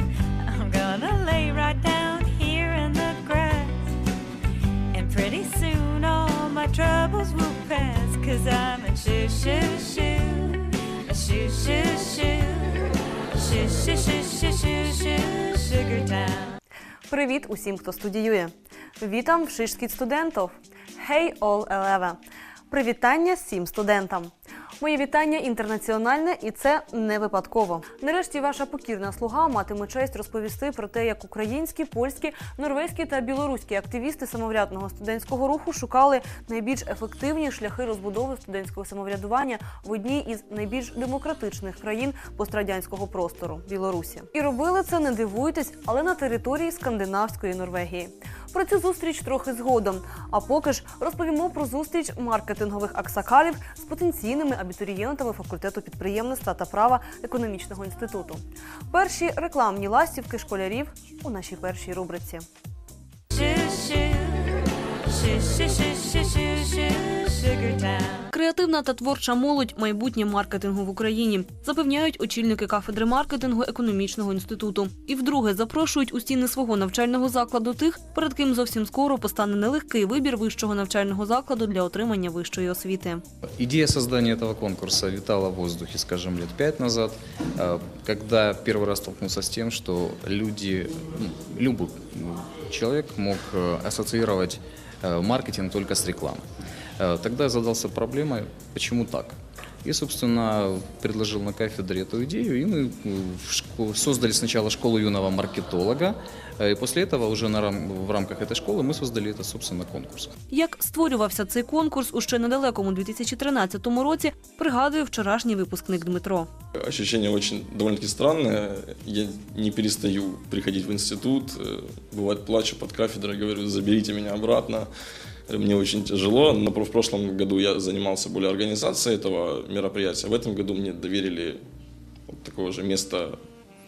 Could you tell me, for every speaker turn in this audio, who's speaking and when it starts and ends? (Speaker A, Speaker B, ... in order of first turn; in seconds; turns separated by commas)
Speaker A: 0.5-3.9, Speaker A: 4.9-16.6, Speaker B: 17.1-22.2, Speaker B: 22.7-62.5, Speaker A: 63.3-68.2, Speaker B: 68.3-83.2, Speaker C: 83.6-96.5, Speaker C: 97.0-110.3, Speaker B: 110.5-116.5, Speaker D: 116.8-124.9, Speaker D: 125.5-131.6, Speaker D: 132.3-133.4